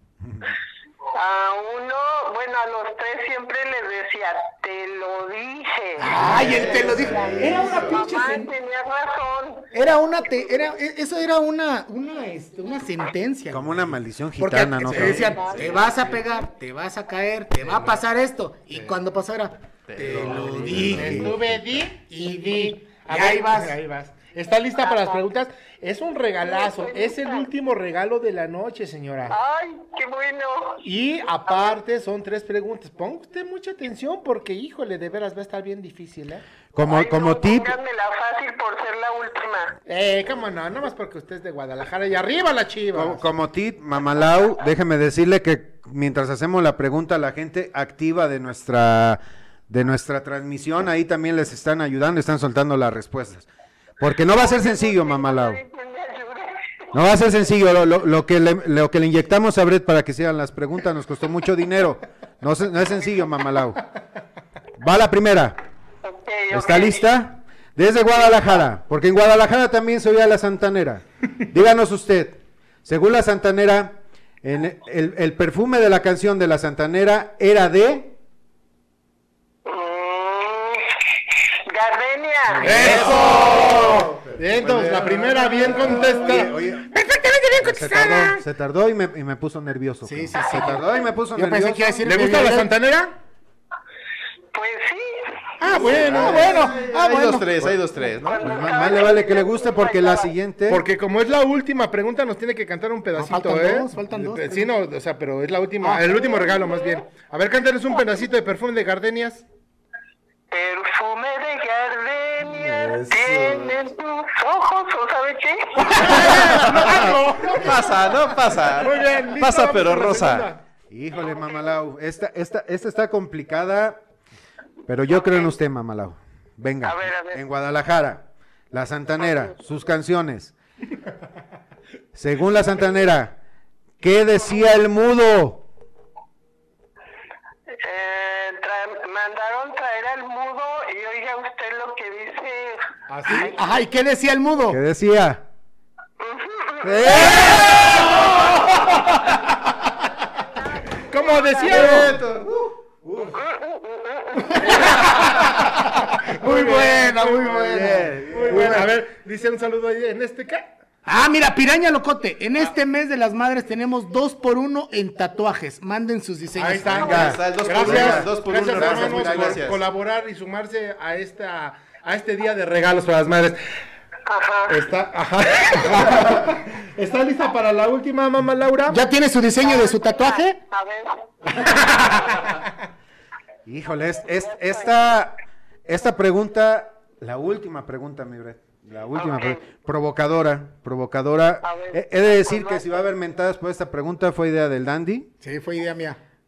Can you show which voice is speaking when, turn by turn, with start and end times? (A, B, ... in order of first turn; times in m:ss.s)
0:01.1-0:06.1 A
0:06.0-0:08.5 B
0:06.2-0:08.0 C
0:07.8-0:09.7 A
0:09.7-0:13.7 B
0:13.5-0:15.6 D
0:14.4-0:21.3 B
0:15.0-0:15.7 C
0:18.7-0:19.0 E
0:19.9-0:21.1 C
0:20.5-0:21.8 D
0:20.9-0:29.4 E
0:22.0-0:23.8 B
0:24.8-0:25.2 A
0:26.4-0:27.5 A
0:29.3-0:30.8 A
0:30.8-0:36.4 E
0:36.7-0:37.8 D
0:36.8-0:39.8 A
0:39.8-0:43.2 E
0:42.9-0:53.5 D
0:54.0-0:55.6 D
0:54.3-0:56.6 A
0:56.9-1:03.8 D
1:04.8-1:05.6 D
1:06.0-1:07.0 A
1:06.5-1:18.1 D
1:19.6-1:20.9 A
1:21.7-1:22.7 A
1:22.6-1:23.9 B
1:22.6-1:26.6 E
1:22.8-1:23.2 D
1:22.9-1:23.7 C
1:24.6-1:25.9 C
1:25.6-1:26.9 D
1:26.1-1:28.4 B
1:27.6-1:32.1 D
1:30.0-1:32.7 B
1:32.0-1:33.1 E
1:34.5-1:35.4 A
1:35.6-1:36.8 E
1:35.6-1:37.7 B
1:35.9-1:38.6 C
1:38.2-1:40.3 A
1:38.4-1:40.8 D
1:40.7-1:49.4 E
1:43.1-1:44.7 B
1:45.8-1:46.5 B
1:50.5-1:55.9 A
1:52.6-1:53.7 C
1:56.0-1:58.1 E
1:56.0-2:00.5 C
1:58.7-2:00.6 E
2:00.9-2:04.0 D
2:04.9-2:10.5 D
2:06.8-2:07.4 A
2:12.1-2:13.4 D
2:14.0-2:15.7 D
2:17.8-2:22.8 A
2:23.1-2:23.5 E
2:23.3-2:24.8 B
2:24.7-2:25.4 D
2:26.2-2:27.7 A
2:26.8-2:27.7 D
2:27.5-2:27.9 C
2:31.0-2:32.2 E
2:31.5-2:32.7 C
2:31.7-2:32.1 B
2:33.0-2:33.3 D
2:33.3-2:34.5 A
2:34.5-2:38.9 B
2:34.7-2:35.1 E
2:36.4-2:40.7 E
2:37.6-2:38.9 D
2:41.0-2:47.3 B
2:46.6-2:53.6 E
2:47.0-2:49.7 D
2:47.1-2:49.8 C
2:54.3-2:54.8 A
2:54.7-2:59.0 E
2:58.9-3:00.6 B
3:00.7-3:01.5 A
3:02.1-3:02.4 A
3:03.6-3:15.3 D
3:04.3-3:05.1 A
3:09.1-3:09.6 A
3:11.6-3:13.0 A
3:15.4-3:16.2 B